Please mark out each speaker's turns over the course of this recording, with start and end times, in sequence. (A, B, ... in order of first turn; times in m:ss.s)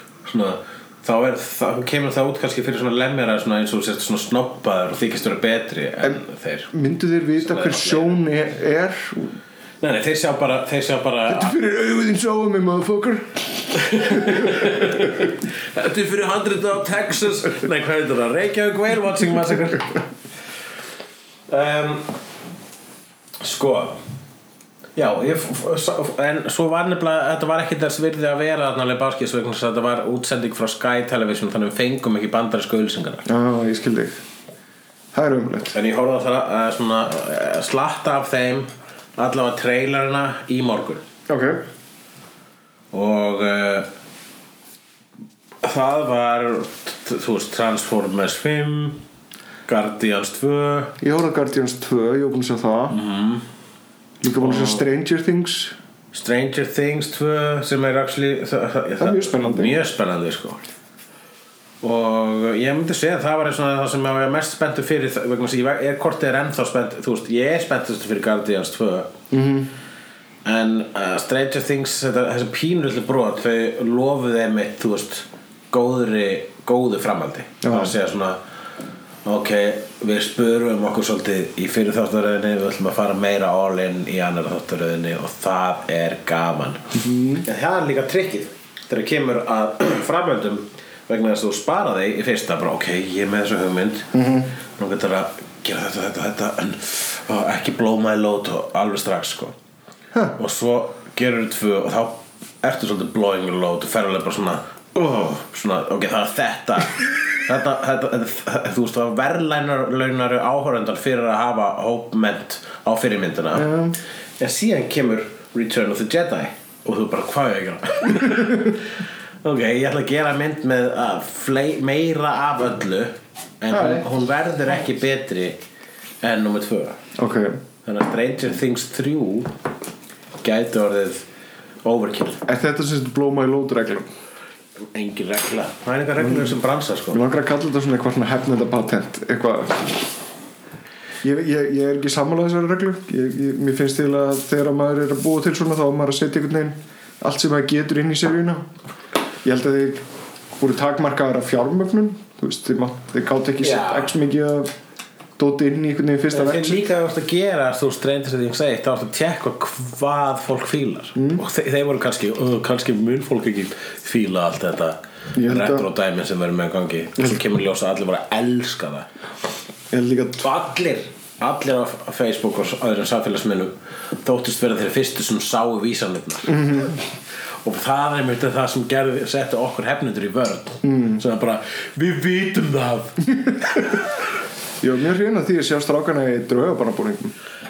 0:00.2-0:06.7 A
0:06.7-0:09.3 B
0:07.4-0:08.2 A
0:09.8-0:11.6 A
0:11.3-0:15.2 B
0:13.7-0:20.0 A
0:21.5-0:22.1 A
0:23.4-0:24.0 A
0:25.0-0:33.2 A
0:33.2-0:34.2 B
0:35.1-0:35.7 B
0:35.7-0:41.0 A
0:41.3-0:41.6 B
0:42.9-0:43.9 A
0:45.6-0:49.0 A
0:49.7-0:50.9 A
0:51.0-0:53.0 B
0:52.9-0:53.4 A
0:54.2-0:55.8 B
0:54.4-0:54.8 A
0:56.1-1:00.7 A
0:59.0-0:59.8 B
1:01.8-1:09.1 A
1:09.3-1:09.7 B
1:10.4-1:18.4 A
1:17.6-1:17.9 B
1:19.2-1:34.1 A
1:26.9-1:27.4 B
1:34.1-1:34.5 B
1:34.8-1:39.5 A
1:40.4-1:53.7 A
1:53.5-1:54.0 B
1:54.4-2:05.6 A
2:03.7-2:04.0 B
2:06.2-2:07.0 A
2:07.2-2:07.6 B
2:07.8-2:09.5 A
2:10.4-2:11.2 A
2:11.8-2:12.4 A
2:12.4-2:14.1 B
2:14.9-2:17.2 A
2:16.2-2:16.6 B
2:17.1-2:20.0 B
2:21.2-2:28.7 B
2:29.4-2:30.0 B
2:30.6-2:34.7 B
2:33.6-2:34.1 A
2:35.4-2:36.8 B
2:36.3-2:49.1 A
2:41.2-2:41.4 B
2:45.3-2:45.9 B
2:49.9-2:50.5 B
2:50.4-2:56.8 A
2:56.4-2:57.0 B
2:57.6-3:03.8 A
3:00.8-3:01.2 B
3:04.8-3:07.3 B